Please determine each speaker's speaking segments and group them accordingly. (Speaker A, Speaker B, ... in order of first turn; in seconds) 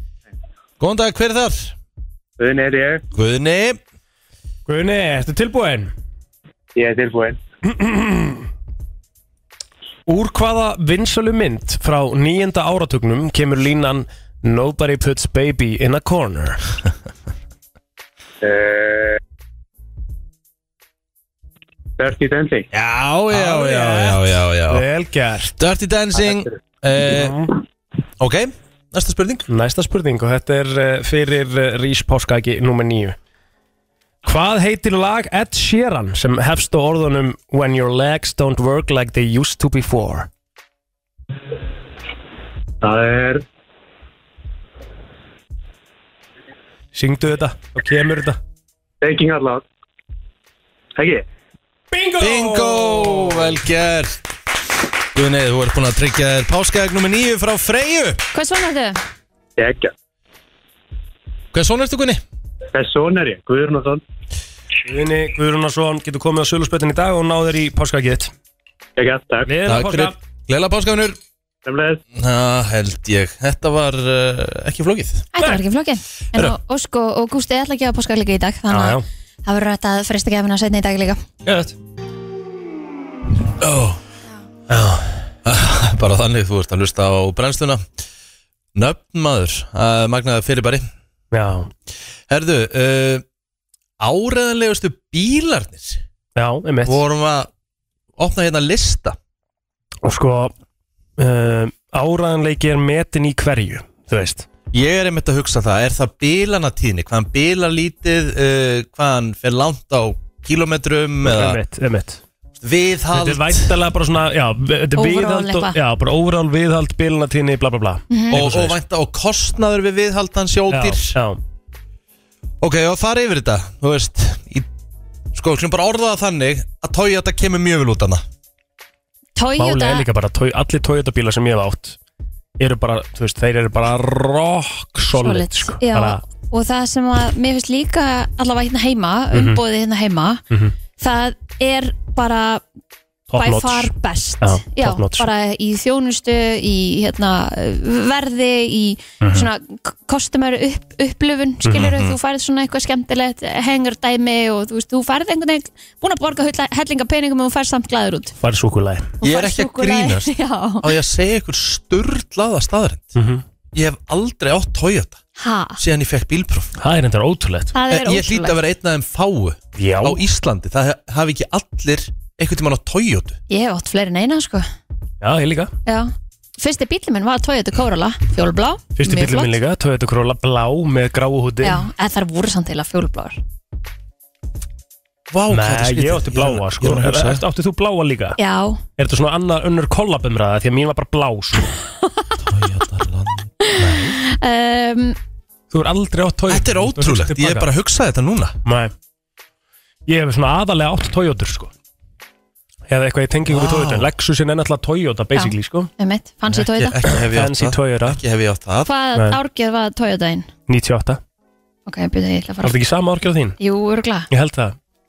Speaker A: 0.8-1.7, 3.1-3.8, 22.7-24.9, 25.6-27.4, 28.2-29.5, 52.2-54.2, 55.1-58.2, 61.5-62.2, 69.6-71.2, 72.1-75.3, 83.6-84.0, 85.4-87.8, 88.7-90.8, 92.3-93.2, 94.0-96.0, 96.8-97.5, 98.2-99.2, 104.7-111.6, 112.6-113.8, 118.3-121.2, 122.6-124.7, 125.3-128.2, 151.8-152.2, 159.2-163.2, 163.7-165.2, 165.8-166.7, 167.9-173.4, 185.3-187.4, 192.4-194.2, 196.5-198.6, 203.5-204.1, 206.5-208.9
Speaker B: 2.4-3.0, 6.7-7.4, 18.4-19.1, 22.0-22.7, 42.8-43.4, 49.0-49.6, 50.9-51.2, 59.6-59.9, 62.7-64.0, 69.0-69.5, 71.6-72.0
Speaker C: 4.7-5.9, 7.7-8.5, 10.1-16.6, 23.3-25.5, 27.0-27.5, 29.5-33.1, 34.2-40.3, 46.9-48.4, 51.9-53.5, 64.8-68.3, 69.4-70.2, 78.7-79.0, 84.7-85.2, 91.3-91.7, 96.3-97.0, 100.0-100.5, 101.2-104.5, 111.2-112.2, 113.1-118.8, 120.7-121.4, 129.6-132.0, 132.6-136.2, 139.3-139.6, 143.3-143.9, 144.4-145.3, 149.2-149.5, 158.4-159.1, 163.1-163.4, 166.8-167.7, 169.8-170.2, 175.2-175.7, 178.9-181.8, 185.5-188.4, 189.0-191.7, 195.7-197.7, 198.6-198.9, 200.1-201.7, 202.9-205.9, 207.0-208.2, 210.7-211.2, 212.6-213.6, 214.3-214.8
Speaker D: 58.3-59.0, 75.3-81.2, 114.9-115.8, 118.1-118.4, 129.3-130.1, 135.1-140.4, 141.0-142.6, 143.4-158.3, 159.2-160.9, 165.4-165.8, 167.7-168.6, 173.5-174.7, 175.8-179.6, 181.6-183.4, 188.4-188.8, 193.6-195.2, 205.3-207.0, 208.8-210.5, 211.9-212.8, 213.6-214.3